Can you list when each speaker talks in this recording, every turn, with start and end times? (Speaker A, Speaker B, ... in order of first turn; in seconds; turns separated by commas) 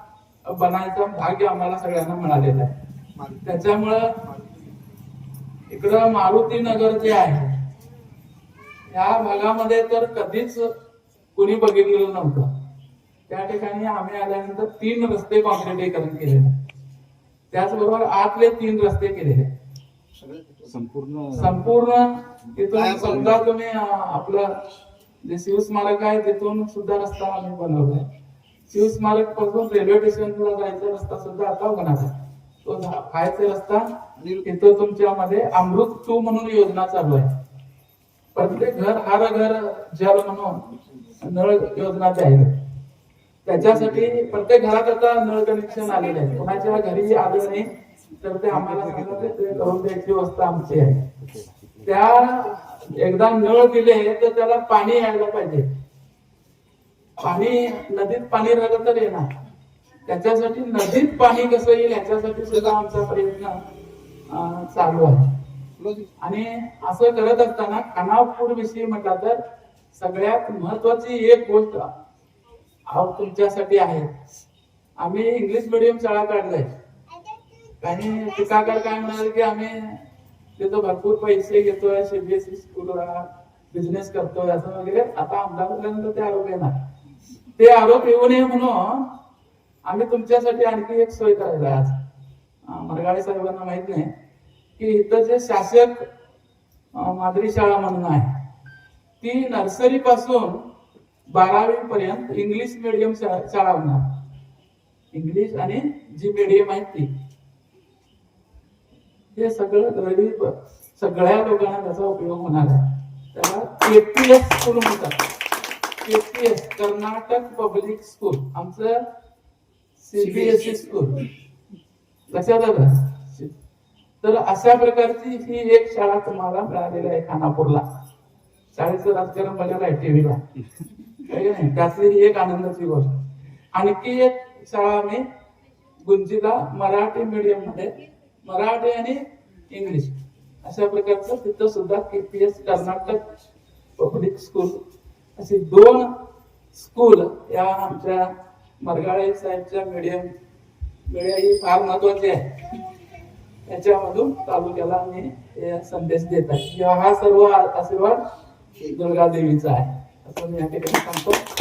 Speaker A: 0.5-2.7, Speaker B: 3.1-3.4, Speaker A: 3.4-4.2, Speaker B: 4.3-4.6, Speaker A: 5.7-7.5, Speaker A: 8.9-10.7, Speaker A: 11.3-12.5, Speaker A: 13.3-16.5, Speaker A: 17.5-19.5, Speaker B: 20.1-21.6, Speaker A: 21.3-24.5, Speaker B: 22.6-23.4, Speaker A: 25.2-28.0, Speaker A: 28.7-32.1, Speaker A: 32.6-33.9, Speaker B: 34.1-34.4, Speaker A: 34.4-37.3, Speaker A: 38.3-40.6, Speaker A: 41.2-42.5, Speaker A: 43.4-51.0, Speaker A: 51.8-55.7, Speaker A: 57.2-59.3, Speaker A: 60.0-63.6, Speaker A: 64.3-65.2, Speaker B: 65.8-66.1, Speaker A: 66.2-69.4, Speaker A: 69.9-71.9, Speaker A: 72.9-74.1, Speaker A: 75.0-76.7, Speaker A: 77.8-80.0, Speaker A: 80.6-86.7, Speaker A: 87.5-89.1, Speaker A: 89.8-91.9, Speaker A: 92.7-94.1, Speaker A: 94.8-96.0, Speaker A: 97.0-98.3, Speaker A: 99.2-100.7, Speaker A: 101.3-104.0, Speaker A: 105.1-107.1, Speaker A: 109.3-115.2, Speaker A: 116.0-119.0, Speaker A: 120.0-121.3, Speaker A: 122.3-123.5, Speaker A: 124.2-127.8, Speaker A: 128.7-130.4, Speaker A: 131.2-133.1, Speaker A: 133.7-135.2, Speaker A: 136.0-143.2, Speaker A: 144.0-144.8, Speaker A: 145.3-146.1, Speaker A: 146.7-148.3, Speaker A: 148.8-150.3, Speaker A: 151.1-152.5, Speaker A: 153.7-158.2, Speaker A: 158.8-161.4